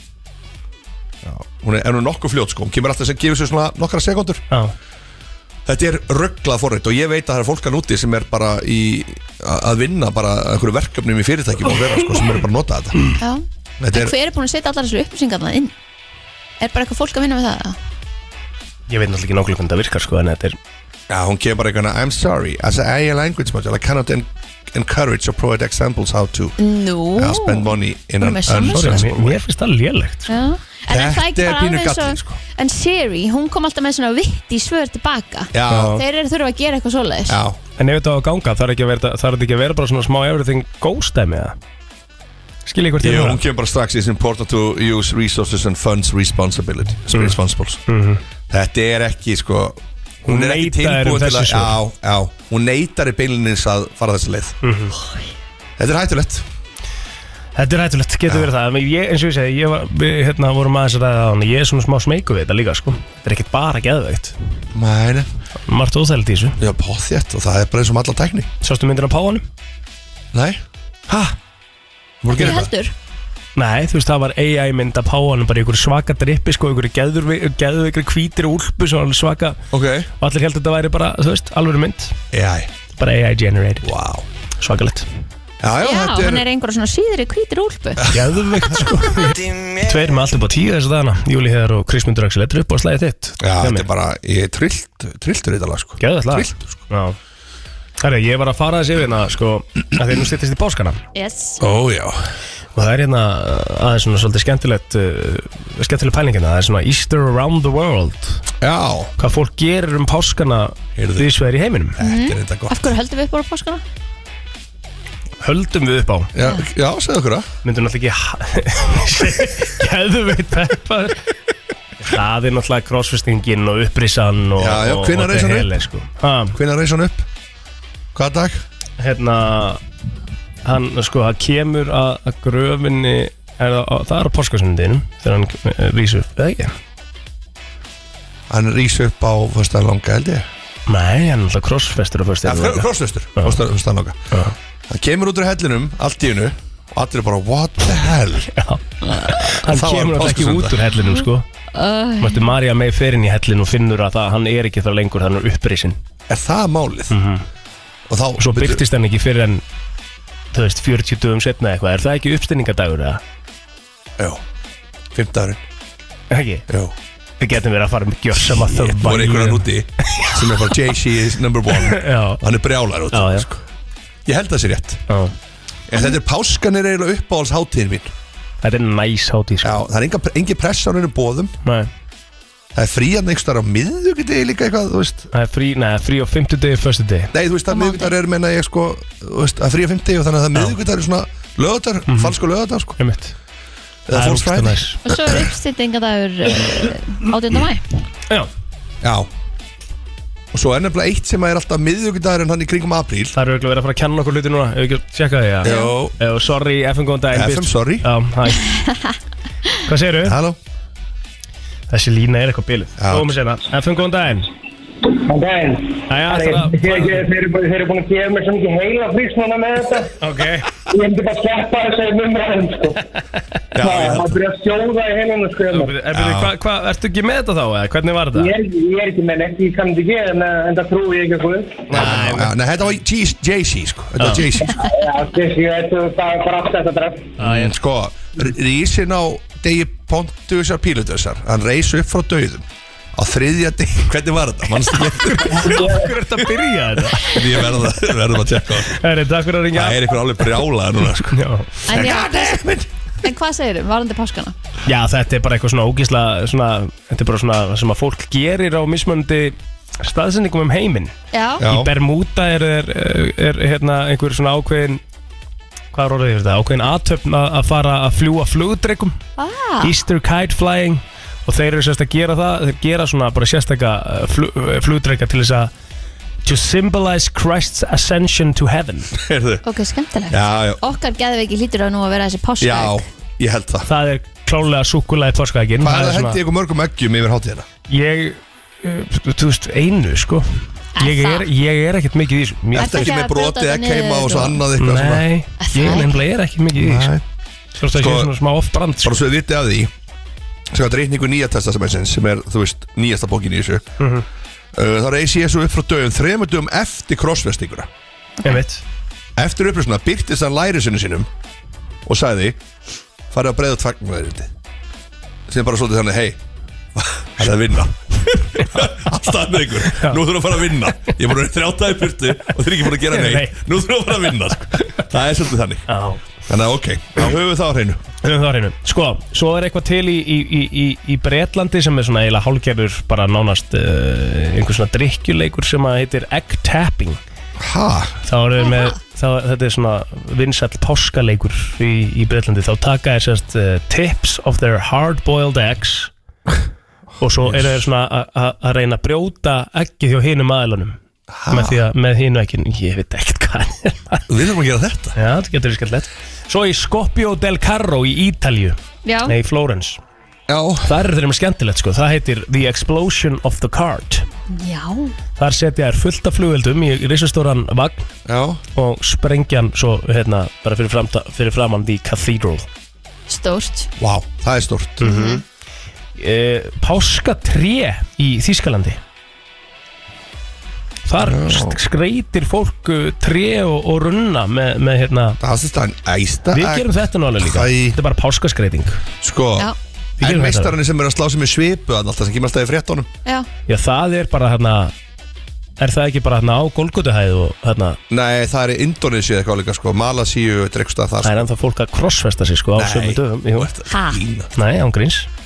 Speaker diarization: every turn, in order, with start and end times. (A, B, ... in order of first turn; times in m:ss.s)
0:01.2-0:04.4 A
0:05.7-0:13.0 A
0:13.2-0:15.7 B
0:13.8-0:14.1 A
0:16.6-0:17.8 B
0:18.9-0:20.6 C
0:21.1-0:26.6 A
0:26.6-0:29.1 B
0:27.2-0:29.4 A
0:28.7-0:30.3 C
0:30.3-0:37.4 B
0:30.9-0:32.4 A
0:35.5-0:36.0 A
0:37.3-0:37.6 A
0:37.8-0:41.6 C
0:42.7-0:43.4 C
0:43.0-0:47.8 A
0:47.1-0:48.2 C
0:48.5-0:54.6 A
0:50.3-0:51.8 C
0:54.6-0:55.0 C
0:55.8-0:56.4 A
0:57.6-1:04.4 C
1:04.7-1:05.3 A
1:05.6-1:06.6 C
1:06.6-1:08.5 A
1:08.6-1:09.4 C
1:10.3-1:11.4 A
1:12.2-1:12.7 A
1:12.3-1:12.9 B
1:13.6-1:19.6 C
1:19.7-1:20.1 A
1:20.2-1:22.2 C
1:22.3-1:22.7 A
1:23.0-1:23.9 C
1:23.8-1:24.2 A
1:24.6-1:25.1 C
1:25.6-1:26.4 A
1:25.8-1:28.1 B
1:28.0-1:28.9 A
1:28.1-1:33.9 C
1:33.4-1:36.8 A
1:36.0-1:37.2 C
1:38.0-1:41.0 C
1:41.2-1:41.6 B
1:41.6-1:42.2 A
1:42.8-1:48.4 C
1:48.6-1:49.1 A
1:49.2-1:52.0 C
1:51.0-1:51.3 A
1:52.0-1:52.8 A
1:52.0-1:53.8 B
1:55.4-1:56.3 C
1:56.3-1:57.5 A
1:57.6-2:01.3 C
2:02.0-2:06.6 C
2:04.6-2:05.7 A
2:06.5-2:07.2 A
2:08.1-2:08.6 A
2:09.0-2:09.8 C
2:10.6-2:16.8 C
2:18.5-2:20.5 A
2:20.9-2:23.6 C
2:22.4-2:24.2 A
2:24.9-2:28.5 A
2:28.5-2:31.5 C
2:29.3-2:30.8 A
2:31.1-2:32.5 B
2:32.2-2:36.0 C
2:36.3-2:37.2 A
2:37.1-2:37.4 C
2:38.1-2:38.8 A
2:38.4-2:39.6 C
2:40.5-2:43.2 C
2:45.1-2:45.6 A
2:46.3-2:46.7 C
2:47.4-2:50.7 C
2:48.4-2:53.6 A
2:51.7-2:52.4 C
2:53.1-2:53.5 C
2:54.2-2:55.0 A
2:55.1-2:55.4 C
2:55.9-2:58.1 A
2:58.6-2:59.8 C
2:59.6-3:01.6 A
3:01.6-3:01.9 C
3:02.8-3:05.3 A
3:05.3-3:07.3 C
3:07.3-3:13.0 A
3:07.7-3:08.1 B
3:12.1-3:12.4 C
3:13.0-3:13.3 C
3:14.1-3:15.4 A
3:14.1-3:15.0 C
3:15.0-3:17.8 B
3:19.0-3:19.3 A
3:20.5-3:23.4 A
3:23.3-3:28.7 C
3:25.6-3:26.2 A
3:25.6-3:25.9 B
3:27.3-3:28.1 A
3:29.9-3:30.4 C
3:30.2-3:30.6 A
3:31.9-3:34.5 C
3:33.0-3:33.3 A
3:35.1-3:40.1 D
3:36.1-3:37.2 C
3:40.2-3:40.7 C
3:40.9-3:43.0 D
3:43.7-3:44.3 A
3:43.8-3:45.9 D
3:45.7-3:48.5 C
3:46.1-3:46.5 A
3:48.3-3:51.9 D
3:51.9-3:52.6 C
3:51.9-3:54.9 A
3:54.2-3:54.5 C
3:54.8-3:57.4 D
3:57.4-3:57.8 C
3:57.4-4:05.7 A
4:05.0-4:08.0 C
4:05.7-4:06.1 D
4:07.2-4:09.0 A
4:08.8-4:11.8 C
4:09.7-4:12.9 A
4:11.9-4:12.6 B
4:13.2-4:14.5 B
4:14.9-4:25.0 C
4:21.3-4:21.6 B
4:21.6-4:21.9 A
4:25.9-4:29.2 C
4:29.4-4:29.9 B
4:29.8-4:35.7 C
4:36.4-4:39.1 C
4:39.1-4:39.6 A
4:39.6-4:43.0 B
4:40.3-4:40.8 A
4:42.6-4:43.9 A
4:43.8-4:46.4 C
4:45.8-4:47.7 A
4:47.9-4:53.0 C
4:51.0-4:51.5 B
4:52.7-4:55.2 A
4:52.8-4:54.6 B
4:54.8-4:57.1 C
4:55.6-4:56.2 B
4:56.8-4:57.2 A
4:57.8-4:59.2 C
4:57.9-4:58.3 A
4:59.0-4:59.9 A
5:00.7-5:03.9 A
5:04.0-5:04.3 C
5:04.7-5:07.9 A
5:08.4-5:08.8 C
5:09.4-5:11.3 A
5:12.0-5:12.6 A
5:13.3-5:14.5 A
5:15.5-5:16.4 A
5:17.0-5:25.8 A
5:18.6-5:18.9 C
5:19.8-5:21.1 C
5:22.1-5:24.6 C
5:25.9-5:26.2 C
5:26.5-5:28.0 A
5:28.2-5:37.2 C
5:37.6-5:38.2 A
5:38.3-5:46.1 C
5:47.2-5:51.0 C
5:47.4-5:47.8 A
5:51.3-5:51.8 A
5:51.5-5:54.2 C
5:54.3-5:55.2 A
5:55.2-6:00.0 C
5:59.0-5:59.4 B
6:00.5-6:00.9 A
6:00.8-6:04.3 C
6:04.5-6:05.2 B
6:05.4-6:08.1 C
6:08.2-6:08.6 A
6:08.8-6:12.7 C
6:13.3-6:13.9 B
6:14.0-6:15.1 A
6:15.0-6:15.4 B
6:15.0-6:15.4 C
6:16.2-6:19.0 C
6:21.1-6:25.4 C
6:21.2-6:21.8 A
6:25.4-6:26.9 A
6:26.5-6:29.0 C
6:27.4-6:28.0 A
6:29.2-6:33.1 A
6:30.2-6:30.8 C
6:33.7-6:34.9 C
6:35.8-6:38.0 C
6:38.1-6:41.4 A
6:41.2-6:43.7 C
6:42.8-6:44.5 A
6:43.9-6:44.2 B
6:44.6-6:45.3 C